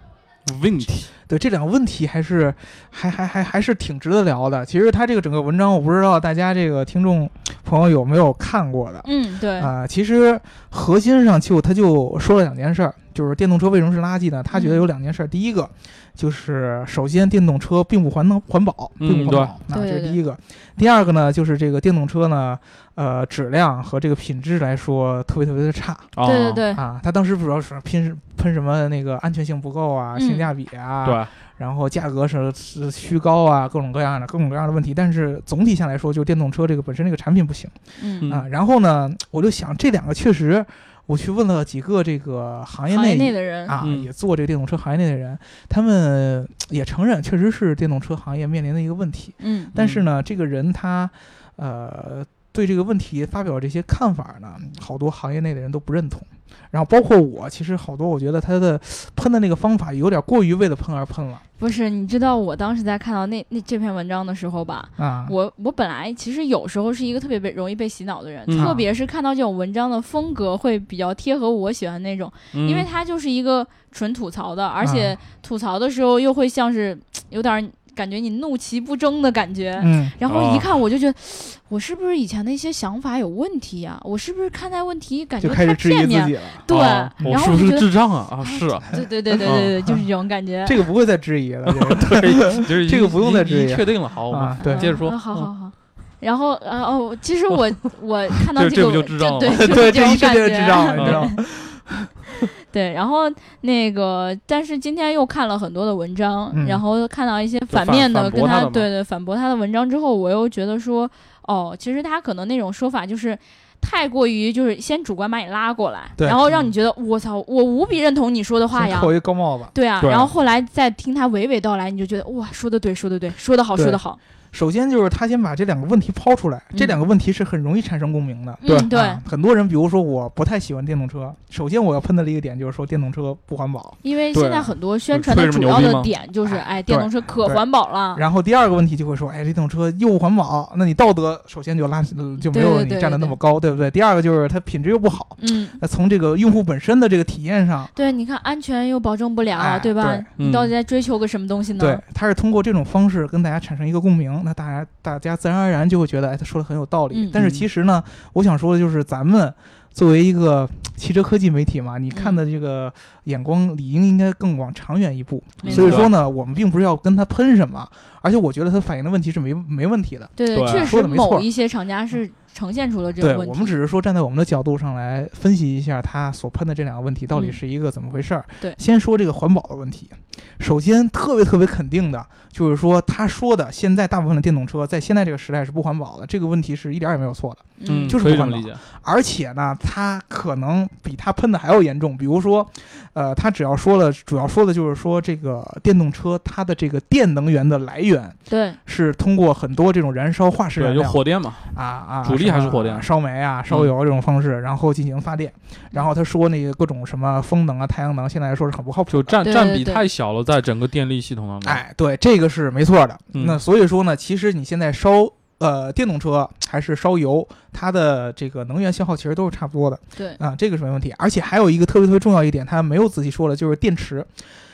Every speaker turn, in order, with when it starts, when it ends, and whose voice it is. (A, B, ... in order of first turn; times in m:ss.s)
0:00.4-0:01.1 A
0:01.2-0:26.1 B
0:09.0-0:09.7 C
0:14.5-0:14.8 C
0:19.0-0:19.5 A
0:19.7-0:20.2 C
0:26.1-0:26.6 A
0:26.2-0:26.8 C
0:26.7-1:01.4 B
0:30.1-0:30.5 C
0:31.0-0:31.3 A
0:38.0-0:38.3 C
0:42.9-0:43.8 C
0:43.8-0:44.1 A
0:49.4-0:49.7 C
0:49.8-0:50.1 A
1:01.6-1:30.8 C
1:05.0-1:05.3 B
1:08.5-1:08.8 A
1:08.6-1:08.8 B
1:12.5-1:12.9 A
1:14.8-1:15.2 B
1:19.8-1:20.1 B
1:20.3-1:20.7 A
1:25.4-1:26.6 B
1:26.7-1:29.7 A
1:29.3-1:30.0 B
1:30.6-1:35.0 B
1:31.6-1:35.5 A
1:34.6-1:41.4 C
1:38.5-1:39.8 A
1:39.5-1:42.1 B
1:41.0-1:41.3 A
1:42.6-1:59.1 C
1:46.5-1:46.8 B
1:47.7-1:48.9 A
1:56.2-1:56.4 B
1:58.7-1:59.7 B
1:59.7-2:04.2 C
2:00.0-2:00.3 A
2:03.8-2:04.0 B
2:04.5-2:14.0 B
2:06.7-2:07.0 C
2:08.6-2:09.2 C
2:14.0-2:18.2 C
2:14.3-2:16.1 A
2:16.4-2:27.9 B
2:22.4-2:23.4 C
2:25.4-2:25.8 C
2:27.9-2:32.0 C
2:29.5-2:30.3 B
2:30.4-2:30.7 A
2:31.8-2:51.5 B
2:37.1-2:37.4 C
2:37.3-2:37.6 A
2:42.1-2:42.4 C
2:45.6-2:46.1 C
2:45.6-2:46.1 A
2:50.4-2:53.7 C
2:50.5-2:50.9 A
2:53.2-3:21.2 B
2:57.3-2:57.6 C
3:07.8-3:08.2 C
3:07.9-3:08.8 A
3:18.5-3:18.8 C
3:20.8-3:21.7 A
3:21.7-3:29.4 B
3:22.2-3:23.0 A
3:29.1-3:31.8 A
3:29.4-3:30.0 C
3:31.6-3:44.3 B
3:33.3-3:33.6 A